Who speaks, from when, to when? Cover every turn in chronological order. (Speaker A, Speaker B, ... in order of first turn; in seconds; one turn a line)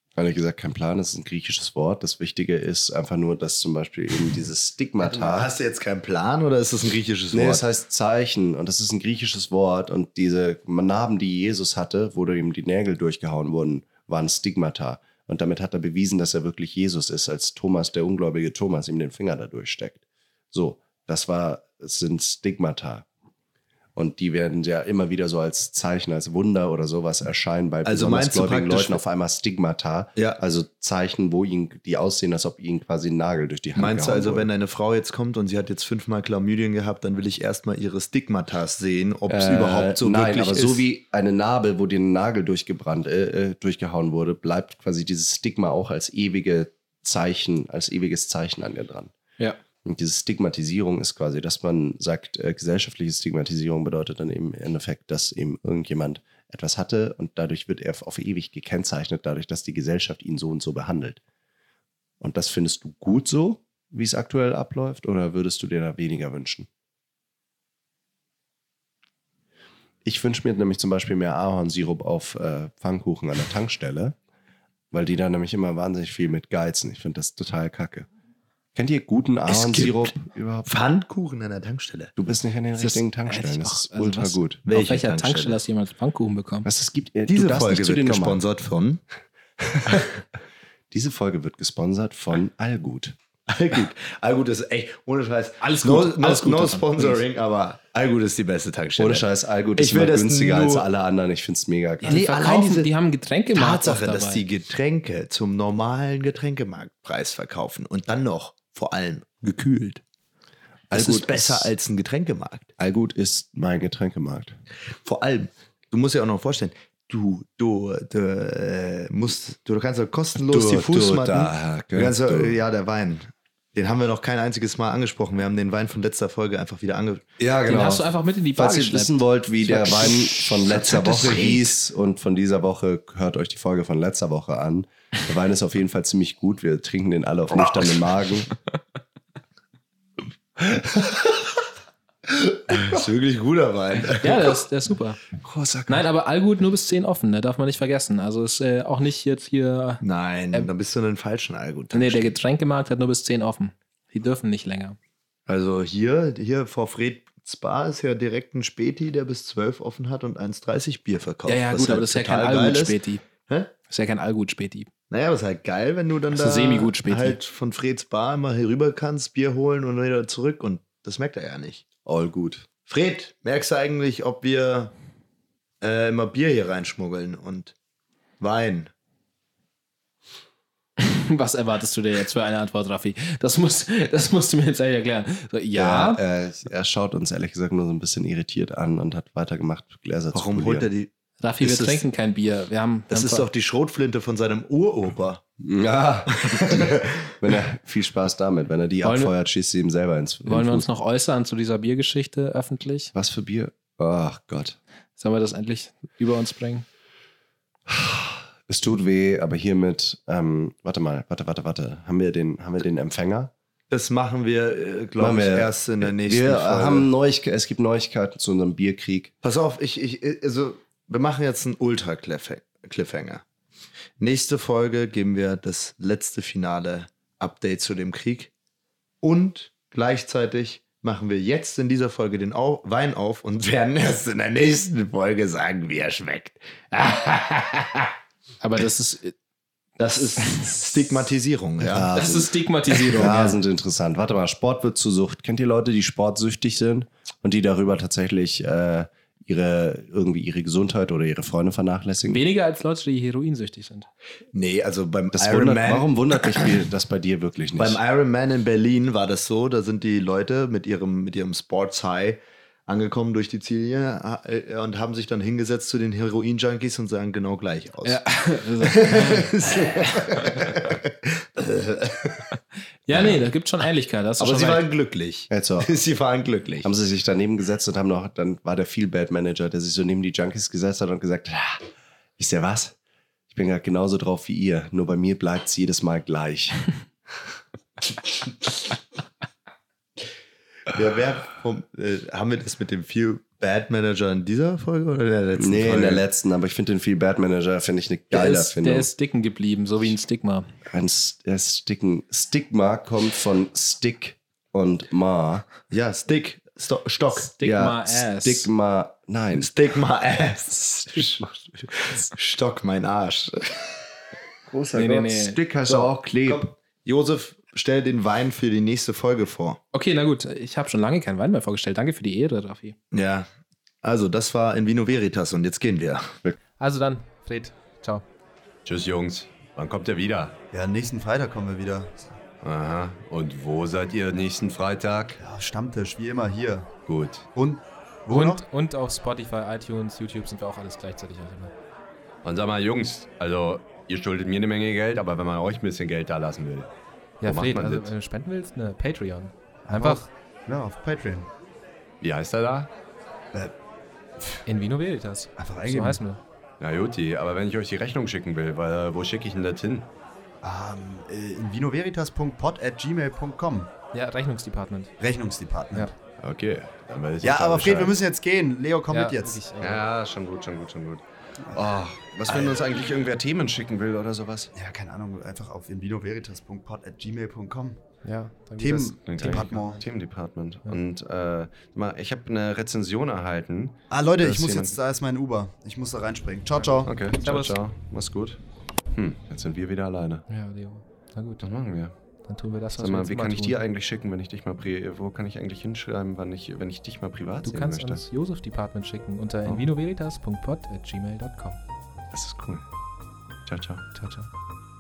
Speaker A: 0.2-5.5
Speaker B: 5.0-7.6
Speaker A: 7.3-23.1
Speaker A: 24.0-34.5
Speaker B: 27.9-29.0
Speaker B: 33.8-40.9
Speaker A: 39.3-49.1
Speaker A: 49.8-61.2
Speaker A: 62.2-66.7
Speaker A: 70.0-74.2
Speaker A: 74.9-78.1
Speaker A: 78.8-80.7
Speaker B: 79.5-80.1
Speaker B: 80.7-82.1
Speaker A: 82.2-84.6
Speaker C: 82.8-86.7
Speaker B: 84.7-85.6
Speaker A: 86.6-88.4
Speaker B: 87.3-89.0
Speaker A: 89.6-90.1
Speaker A: 90.9-93.2
Speaker B: 93.5-100.9
Speaker C: 95.6-97.2
Speaker A: 99.0-102.2
Speaker C: 102.0-104.4
Speaker B: 102.1-102.9
Speaker B: 103.5-110.0
Speaker B: 110.9-112.7
Speaker A: 110.9-111.7
Speaker A: 112.8-114.6
Speaker B: 115.0-127.3
Speaker A: 120.4-122.6
Speaker A: 127.4-138.5
Speaker C: 127.7-130.2
Speaker B: 130.1-131.7
Speaker B: 142.3-144.6
Speaker C: 144.2-145.2
Speaker A: 145.4-146.1
Speaker C: 145.9-150.7
Speaker B: 150.0-152.3
Speaker C: 151.9-155.0
Speaker B: 155.5-163.7
Speaker C: 161.5-163.2
Speaker C: 163.9-164.9
Speaker B: 165.1-171.8
Speaker C: 166.3-167.4
Speaker A: 172.1-172.7
Speaker B: 172.9-174.9
Speaker B: 175.8-177.7
Speaker B: 178.4-178.9
Speaker C: 181.0-186.2
Speaker A: 185.8-190.9
Speaker B: 190.3-192.1
Speaker C: 191.4-193.5
Speaker B: 193.1-195.4
Speaker A: 195.6-200.9
Speaker B: 196.3-197.3
Speaker C: 199.0-199.3
Speaker C: 200.4-203.1
Speaker A: 203.1-204.8
Speaker C: 205.2-206.9
Speaker A: 207.9-213.5
Speaker B: 213.9-217.1
Speaker A: 215.2-219.3
Speaker B: 219.4-223.4
Speaker B: 224.2-228.5
Speaker B: 229.2-237.9
Speaker C: 238.6-239.3
Speaker B: 240.0-242.5
Speaker A: 241.9-242.4
Speaker C: 242.2-243.6
Speaker A: 243.1-252.4
Speaker C: 252.3-254.1
Speaker B: 254.5-256.6
Speaker A: 255.3-258.0
Speaker B: 257.8-268.2
Speaker C: 268.0-270.7
Speaker B: 268.8-272.5
Speaker C: 273.1-274.9
Speaker B: 274.4-276.9
Speaker A: 275.5-275.9
Speaker A: 276.8-281.8
Speaker A: 282.4-283.0
Speaker A: 283.5-286.8
Speaker B: 290.9-296.2
Speaker A: 295.6-299.1
Speaker C: 298.3-300.7
Speaker A: 300.9-305.7
Speaker B: 305.9-307.5
Speaker C: 307.4-308.7
Speaker A: 307.6-309.7
Speaker B: 309.6-314.0
Speaker A: 314.7-316.7
Speaker C: 315.0-315.6
Speaker B: 315.9-319.8
Speaker C: 319.9-323.0
Speaker B: 323.1-323.5
Speaker B: 324.0-326.3
Speaker C: 326.8-328.2
Speaker D: 328.9-330.6
Speaker E: 330.7-332.4
Speaker D: 332.6-335.4
Speaker E: 335.4-336.9
Speaker D: 337.1-337.5
Speaker E: 337.5-338.6
Speaker C: 338.3-341.7
Speaker D: 342.4-346.9
Speaker C: 347.4-350.2
Speaker D: 347.4-348.1
Speaker E: 349.9-351.5
Speaker D: 352.2-352.9
Speaker C: 354.7-356.4
Speaker E: 355.6-356.2
Speaker D: 356.8-360.1
Speaker E: 360.6-363.9
Speaker C: 364.1-365.1
Speaker E: 365.2-366.1
Speaker D: 366.4-368.2
Speaker E: 367.4-369.6
Speaker C: 369.1-370.1
Speaker D: 369.8-374.7
Speaker E: 374.7-378.0
Speaker C: 378.2-379.7
Speaker E: 378.8-380.0
Speaker D: 379.2-385.0
Speaker E: 384.1-387.2
Speaker C: 386.8-387.8
Speaker D: 387.0-388.6
Speaker D: 389.1-390.5
Speaker C: 390.5-391.7
Speaker D: 391.6-392.1
Speaker C: 392.4-393.8
Speaker D: 393.0-398.3
Speaker C: 397.6-401.8
Speaker D: 402.3-402.8
Speaker D: 403.7-404.1
Speaker C: 404.1-404.5